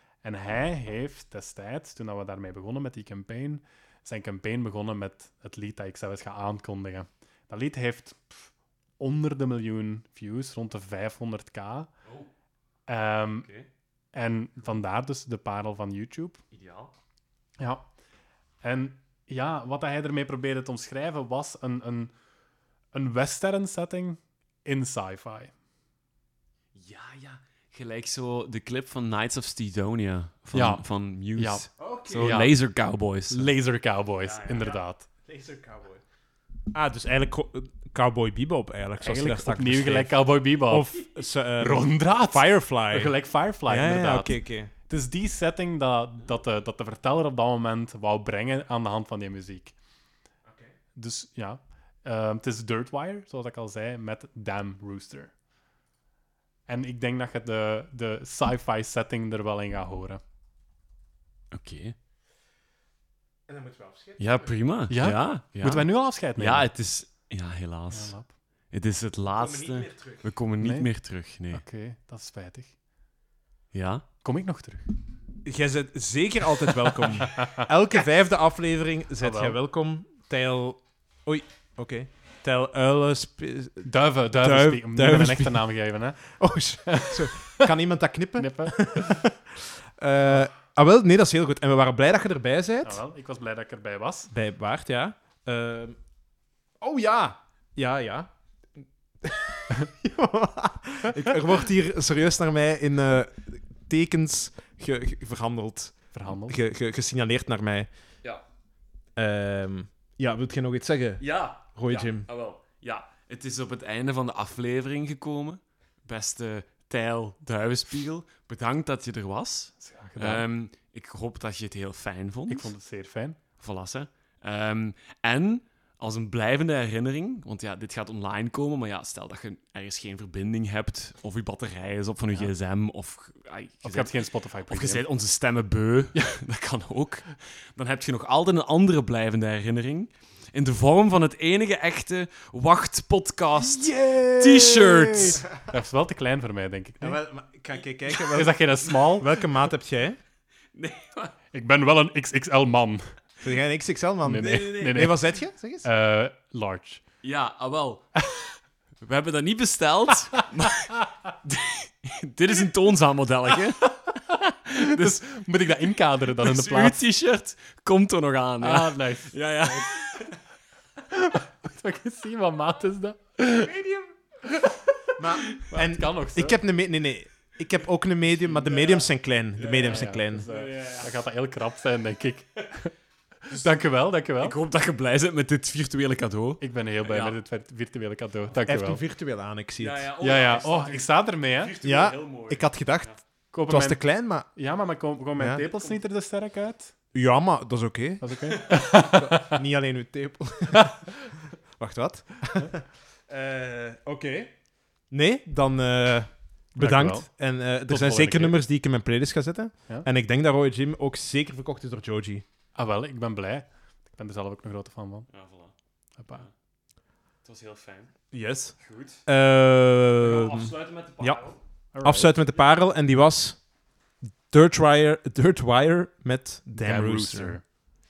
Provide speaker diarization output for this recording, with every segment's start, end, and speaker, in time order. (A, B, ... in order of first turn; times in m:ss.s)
0:00.2-0:11.9 A
0:12.9-0:13.5 A
0:13.4-0:13.7 B
0:14.1-0:16.4 A
0:16.5-0:16.9 B
0:17.6-0:17.9 A
0:18.6-0:22.1 A
0:22.9-0:25.5 A
0:26.7-0:33.5 B
0:30.5-0:32.5 A
0:31.8-0:32.5 C
0:33.3-0:35.0 A
0:34.2-0:34.8 B
0:35.3-0:36.0 C
0:36.7-0:40.2 C
0:39.0-0:41.0 A
0:40.7-0:44.7 C
0:41.6-0:49.7 A
0:50.9-0:55.3 A
0:56.7-1:00.2 A
1:01.5-1:01.9 B
1:03.5-1:04.5 C
1:04.2-1:11.6 B
1:04.9-1:06.7 A
1:07.9-1:08.3 A
1:09.4-1:10.2 C
1:10.6-1:10.9 A
1:11.5-1:12.7 A
1:13.7-1:14.0 B
1:14.2-1:14.8 A
1:15.4-1:23.9 C
1:16.7-1:17.7 A
1:19.2-1:19.6 A
1:23.8-1:26.3 A
1:24.4-1:25.6 C
1:26.4-1:33.0 C
1:26.8-1:27.7 A
1:28.4-1:29.2 A
1:32.8-1:34.3 A
1:34.3-1:36.0 C
1:36.8-1:38.3 C
1:38.8-1:47.9 C
1:46.1-1:46.6 A
1:49.2-1:51.2 C
1:51.2-2:02.7 B
1:51.7-1:52.3 C
1:59.8-2:00.4 A
2:02.5-2:03.4 A
2:03.6-2:25.4 B
2:13.8-2:15.0 A
2:23.6-2:25.5 C
2:25.6-2:27.2 A
2:27.0-2:30.2 C
2:28.1-2:29.3 A
2:30.7-2:31.3 B
2:31.5-2:33.2 A
2:33.4-2:35.9 C
2:34.2-2:37.0 A
2:37.2-2:38.1 B
2:39.0-2:45.3 B
2:44.8-2:47.0 A
2:46.4-2:50.4 B
2:48.6-2:49.9 A
2:51.1-2:54.8 A
2:55.2-3:00.5 C
2:55.5-2:56.6 A
2:58.5-3:01.1 B
2:59.8-3:02.9 A
3:03.5-3:04.6 A
3:04.4-3:07.4 B
3:06.6-3:09.0 A
3:08.6-3:10.1 C
3:09.8-3:13.2 B
3:10.2-3:11.7 A
3:11.8-3:13.1 C
3:13.5-3:16.9 A
3:13.7-3:14.5 C
3:15.4-3:15.6 C
3:15.7-3:15.9 B
3:17.1-3:18.3 C
3:18.2-3:19.6 A
3:18.9-3:24.5 C
3:25.1-3:32.4 C
3:26.7-3:27.3 A
3:27.8-3:28.6 A
3:32.7-3:35.3 A
3:35.3-3:35.7 B
3:36.2-3:36.4 A
3:37.4-3:38.1 B
3:38.3-3:41.4 C
3:38.8-3:39.2 B
3:40.2-3:41.6 B
3:41.9-3:42.3 A
3:42.0-3:43.6 C
3:44.5-3:47.6 C
3:46.8-3:47.6 A